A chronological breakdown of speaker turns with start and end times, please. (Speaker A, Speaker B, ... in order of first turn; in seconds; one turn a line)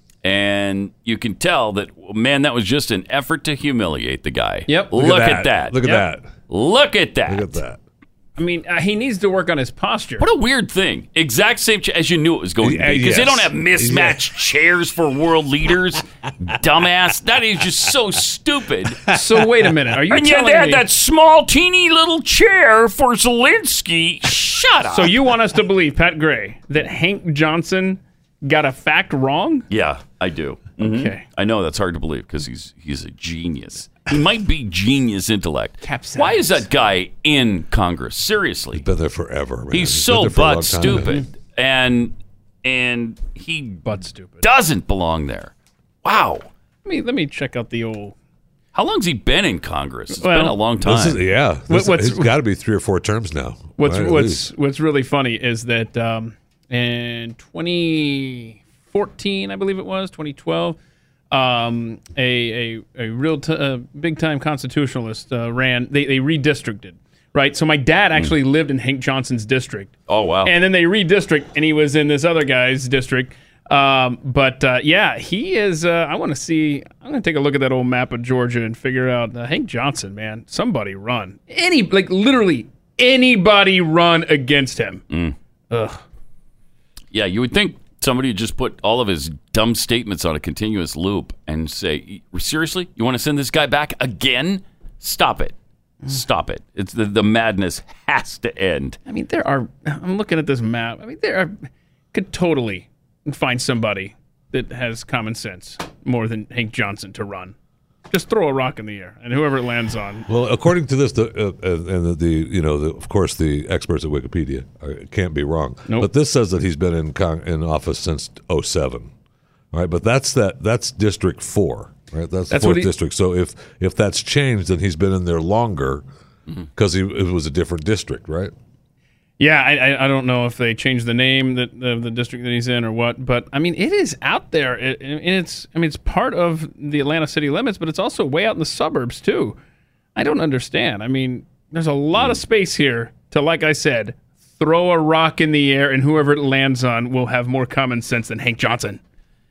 Speaker A: 0.2-5.9
Speaker B: 4.7-4.9
Speaker C: 4.9-6.3
Speaker A: 6.5-7.6
Speaker C: 7.3-7.8
Speaker B: 8.4-10.2
Speaker A: 10.2-19.1
Speaker C: 12.6-14.2
Speaker B: 19.1-20.9
Speaker A: 20.1-25.1
Speaker B: 24.9-29.7
Speaker A: 29.7-38.8
Speaker B: 30.8-31.2
Speaker B: 35.8-36.7
Speaker C: 38.7-41.1
Speaker A: 39.7-43.8
Speaker B: 40.9-41.3
Speaker B: 43.9-44.4
Speaker A: 44.4-45.5
Speaker A: 46.0-46.5
Speaker B: 46.9-48.1
Speaker A: 48.7-51.2
Speaker B: 50.1-50.6
Speaker C: 50.8-54.4
Speaker B: 51.7-52.3
Speaker B: 53.8-60.8
Speaker B: 61.3-69.9
Speaker A: 70.1-70.5
Speaker B: 70.4-85.0
Speaker B: 85.7-86.0
Speaker A: 87.1-95.5
Speaker A: 96.1-99.0
Speaker B: 99.1-107.5
Speaker B: 108.1-110.3
Speaker C: 110.3-119.1
Speaker C: 119.7-126.0
Speaker B: 122.5-122.9
Speaker C: 126.8-128.5
Speaker B: 129.4-139.6
Speaker B: 140.2-149.0
Speaker A: 142.2-142.4